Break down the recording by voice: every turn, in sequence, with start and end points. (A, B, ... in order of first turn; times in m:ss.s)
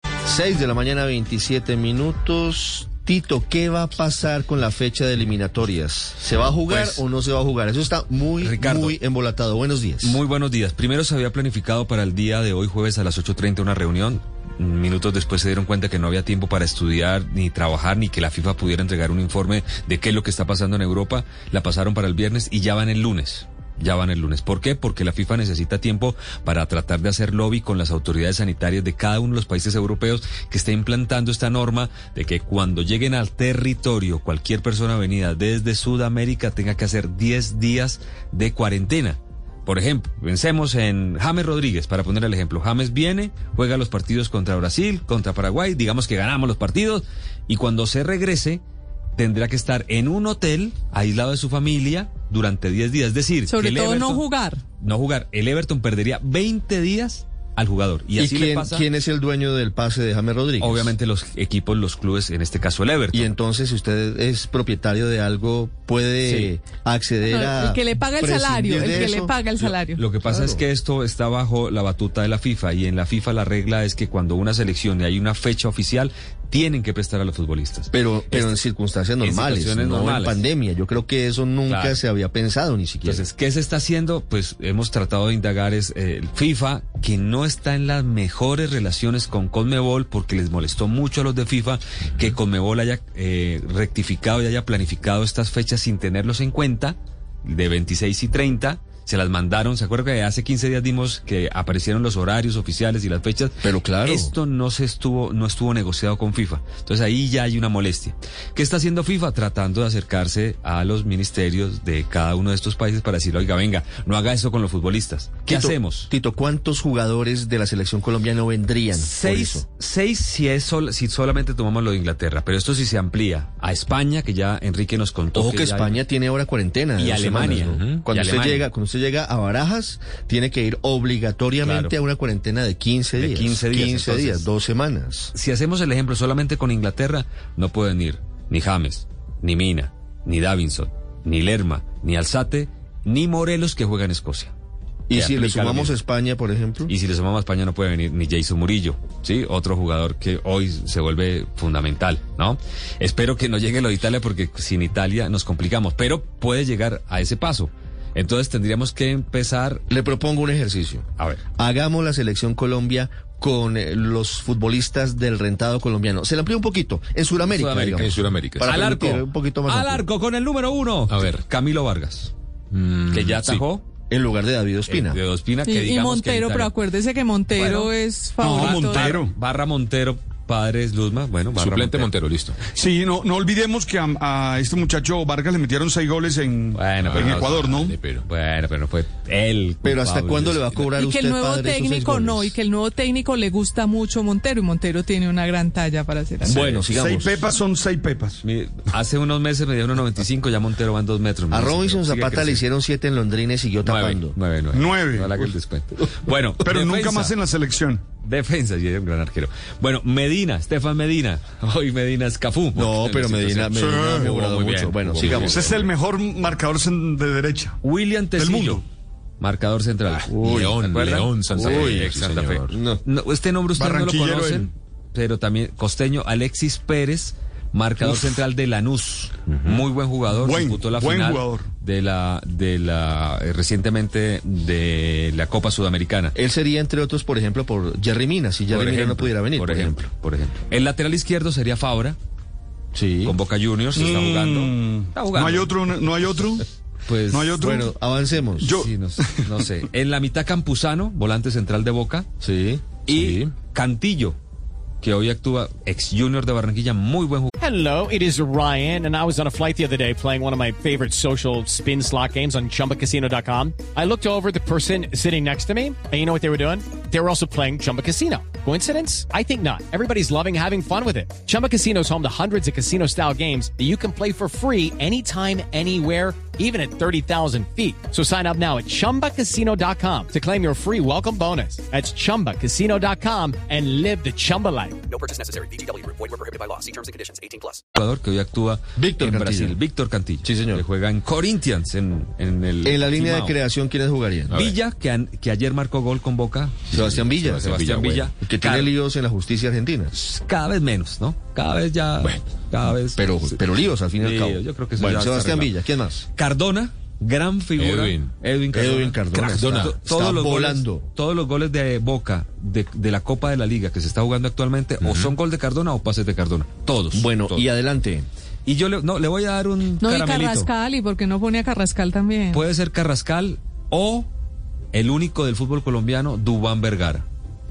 0:00.2-0:10.2 A
0:06.6-0:07.0 B
0:08.4-0:09.0 B
0:10.0-0:48.6 B
0:49.2-0:54.2 B
0:53.5-0:54.6 C
0:54.8-0:58.8 B
0:58.2-1:00.9 A
1:00.6-1:03.3 B
1:03.1-1:09.3 A
1:06.2-1:06.5 B
1:07.2-1:10.0 C
1:09.6-1:18.6 B
1:10.2-1:10.6 A
1:17.9-1:23.2 A
1:19.2-1:20.4 B
1:21.7-1:22.0 B
1:23.0-1:56.1 B
1:43.6-1:44.3 A
1:55.4-1:59.6 A
1:58.9-2:06.0 B
2:05.3-2:15.3 A
2:07.0-2:08.7 B
2:07.7-2:08.0 D
2:11.6-2:11.9 B
2:13.2-2:14.5 B
2:15.3-2:24.5 B
2:25.1-2:26.9 A
2:25.1-2:26.0 B
2:26.9-2:39.8 B
2:39.9-2:41.0 A
2:41.2-2:41.4 B
2:41.6-2:50.0 A
2:47.5-2:52.3 B
2:47.9-2:48.8 D
2:51.1-2:51.4 D
2:52.7-2:53.6 D
2:53.1-2:53.9 B
2:54.1-2:55.2 A
2:54.9-2:56.7 B
2:55.6-2:59.2 C
2:57.6-2:57.9 B
2:58.4-2:59.3 E
2:58.5-3:02.1 B
3:01.5-3:02.6 D
3:02.7-3:08.0 E
3:06.7-3:10.9 B
3:07.0-3:08.2 D
3:09.8-3:12.5 A
3:10.9-3:16.7 C
3:16.4-3:17.4 A
3:16.4-3:17.0 B
3:16.9-3:18.4 E
3:18.4-3:22.6 B
3:21.5-3:24.4 A
3:23.8-3:27.4 B
3:24.7-3:25.4 E
3:26.6-3:28.0 E
3:28.2-3:33.8 B
3:32.7-3:35.7 A
3:33.7-3:34.4 E
3:34.3-3:35.8 B
3:35.2-3:37.8 E
3:37.8-3:38.8 B
3:38.3-3:38.8 E
3:39.4-3:56.3 B
3:40.2-3:42.7 D
3:40.3-3:40.8 A
3:41.5-3:42.1 A
3:42.7-3:43.0 A
3:43.7-3:44.7 E
3:48.0-3:48.4 E
3:50.3-3:51.7 E
3:56.3-4:00.0 A
3:58.7-4:02.2 B
4:02.9-4:03.4 A
4:03.2-4:05.8 B
4:03.9-4:06.7 E
4:07.0-4:07.6 B
4:07.2-4:07.9 E
4:07.6-4:08.7 A
4:08.6-4:09.6 E
4:08.6-4:12.3 B
4:12.4-4:12.9 A
4:13.0-4:14.4 B
4:13.1-4:13.5 D
4:15.0-4:17.5 B
4:17.6-4:45.0 F
4:45.1-4:47.8 G
4:47.9-4:53.6 B
4:49.0-4:49.8 A
4:50.4-4:50.8 A
4:52.8-4:54.6 A
4:54.5-4:54.8 D
4:54.5-4:58.9 B
4:56.9-4:57.7 A
4:56.9-4:58.3 D
4:58.4-5:00.1 A
5:00.1-5:03.4 B
5:02.2-5:02.6 D
5:03.2-5:06.2 A
5:04.2-5:05.7 B
5:06.3-5:17.6 B
5:07.8-5:08.3 D
5:08.7-5:11.1 A
5:09.5-5:10.0 D
5:15.0-5:15.3 D
5:17.1-5:18.3 A
5:18.6-5:20.7 B
5:20.0-5:22.6 C
5:22.5-5:24.3 B
5:24.9-5:27.2 B